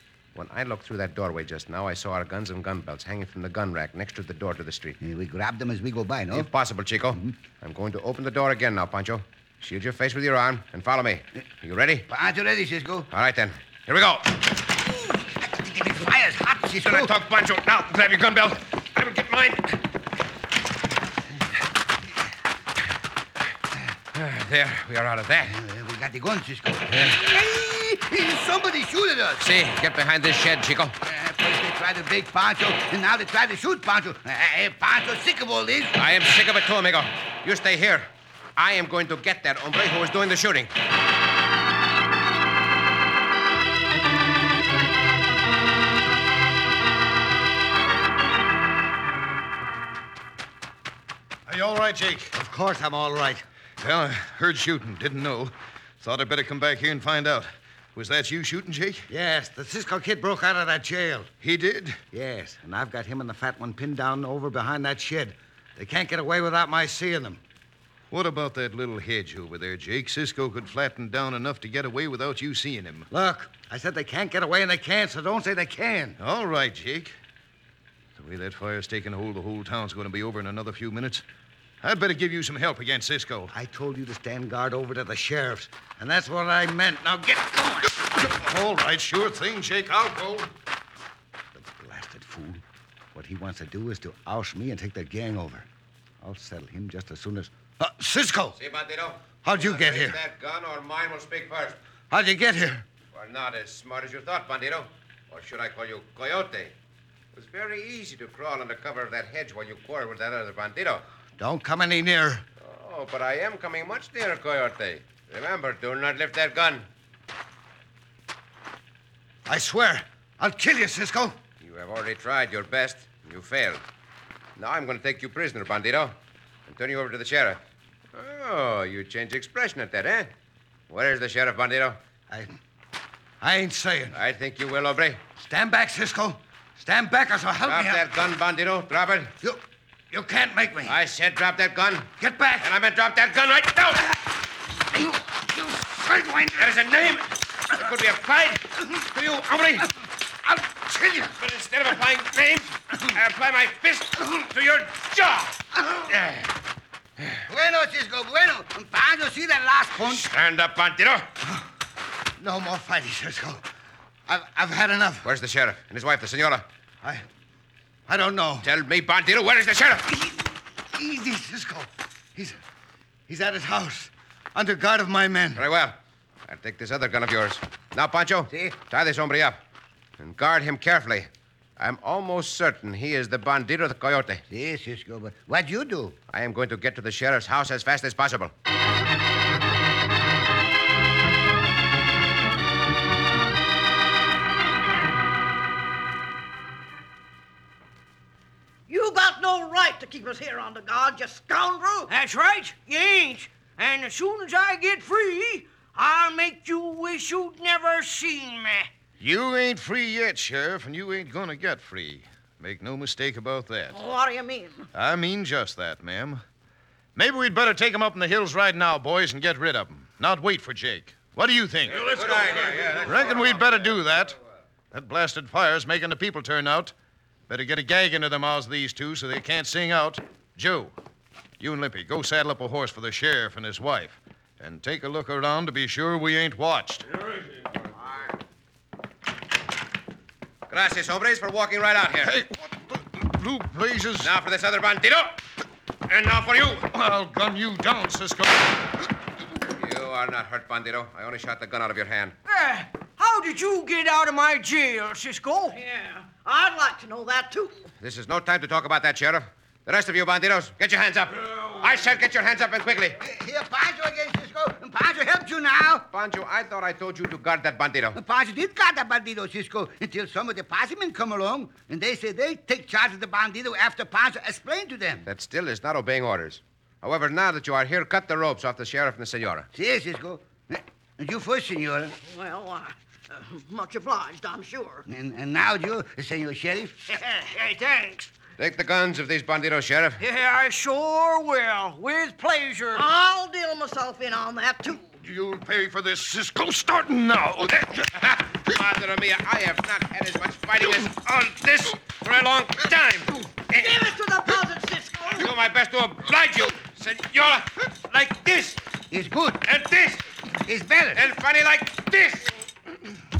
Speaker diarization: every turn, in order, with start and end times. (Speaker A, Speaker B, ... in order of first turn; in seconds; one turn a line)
Speaker A: 0.3-5.0
Speaker B: 5.0-6.5
Speaker A: 6.3-12.1
Speaker B: 12.1-13.1
Speaker A: 13.1-14.4
Speaker B: 14.8-17.1
Speaker A: 16.8-19.8
Speaker A: 24.1-25.5
Speaker B: 25.4-29.5
Speaker A: 29.4-30.9
Speaker B: 31.0-36.0
Speaker A: 35.9-40.7
Speaker C: 51.5-52.3
Speaker D: 52.3-53.4
Speaker C: 53.8-59.1
Speaker D: 59.1-61.3
Speaker C: 61.4-62.0
Speaker D: 62.1-67.4
Speaker C: 68.1-73.1
Speaker D: 73.1-76.2
Speaker C: 76.2-77.1
Speaker C: 78.2-81.2
Speaker C: 81.8-83.5
Speaker D: 83.5-87.9
Speaker C: 88.2-90.5
Speaker D: 91.5-92.6
Speaker D: 93.1-95.7
Speaker D: 96.2-98.5
Speaker A: 98.5-101.8
Speaker D: 99.4-100.2
Speaker D: 102.1-102.8
Speaker A: 103.1-106.7
Speaker A: 107.3-111.0
Speaker D: 111.4-112.4
Speaker A: 112.6-116.9
Speaker D: 119.5-121.4
Speaker A: 121.6-123.8
Speaker A: 124.6-127.6
Speaker A: 128.1-130.3
Speaker A: 130.9-132.0
Speaker D: 132.3-132.6
Speaker D: 133.4-134.2
Speaker A: 134.1-135.2
Speaker D: 135.4-138.0
Speaker A: 137.6-139.3
Speaker D: 139.4-141.0
Speaker A: 140.8-144.2
Speaker D: 142.2-142.7
Speaker D: 145.8-146.5
Speaker A: 146.5-149.9
Speaker B: 150.7-151.0
Speaker A: 151.3-156.5
Speaker B: 157.4-160.3
Speaker A: 160.0-161.3
Speaker D: 162.4-163.6
Speaker D: 164.3-165.3
Speaker A: 165.2-166.7
Speaker D: 168.1-168.7
Speaker A: 168.6-170.2
Speaker D: 170.9-172.6
Speaker D: 173.3-175.6
Speaker A: 175.6-179.6
Speaker B: 178.5-178.7
Speaker A: 180.2-184.4
Speaker B: 184.5-186.2
Speaker A: 186.3-188.5
Speaker E: 198.9-202.1
Speaker F: 202.1-208.9
Speaker C: 209.2-214.0
Speaker E: 213.9-214.9
Speaker C: 214.9-216.4
Speaker C: 217.1-222.3
Speaker A: 221.9-223.9
Speaker C: 222.8-224.4
Speaker C: 224.9-226.9
Speaker C: 227.5-230.9
Speaker C: 231.6-237.1
Speaker A: 240.7-242.4
Speaker C: 242.2-244.3
Speaker A: 244.2-245.4
Speaker A: 246.1-246.9
Speaker C: 246.9-248.9
Speaker A: 249.7-252.3
Speaker F: 252.4-255.8
Speaker E: 255.7-257.9
Speaker A: 258.0-263.2
Speaker B: 263.2-266.1
Speaker A: 266.1-268.2
Speaker B: 268.1-275.3
Speaker A: 275.3-279.7
Speaker B: 279.7-282.1
Speaker E: 282.2-285.0
Speaker B: 285.1-287.1
Speaker F: 287.1-288.3
Speaker A: 288.6-290.2
Speaker F: 290.2-293.1
Speaker E: 292.9-295.1
Speaker C: 295.2-298.1
Speaker A: 298.1-304.1
Speaker E: 303.7-305.5
Speaker A: 305.3-308.8
Speaker B: 309.1-309.6
Speaker A: 309.6-310.3
Speaker B: 310.6-311.3
Speaker A: 311.1-312.5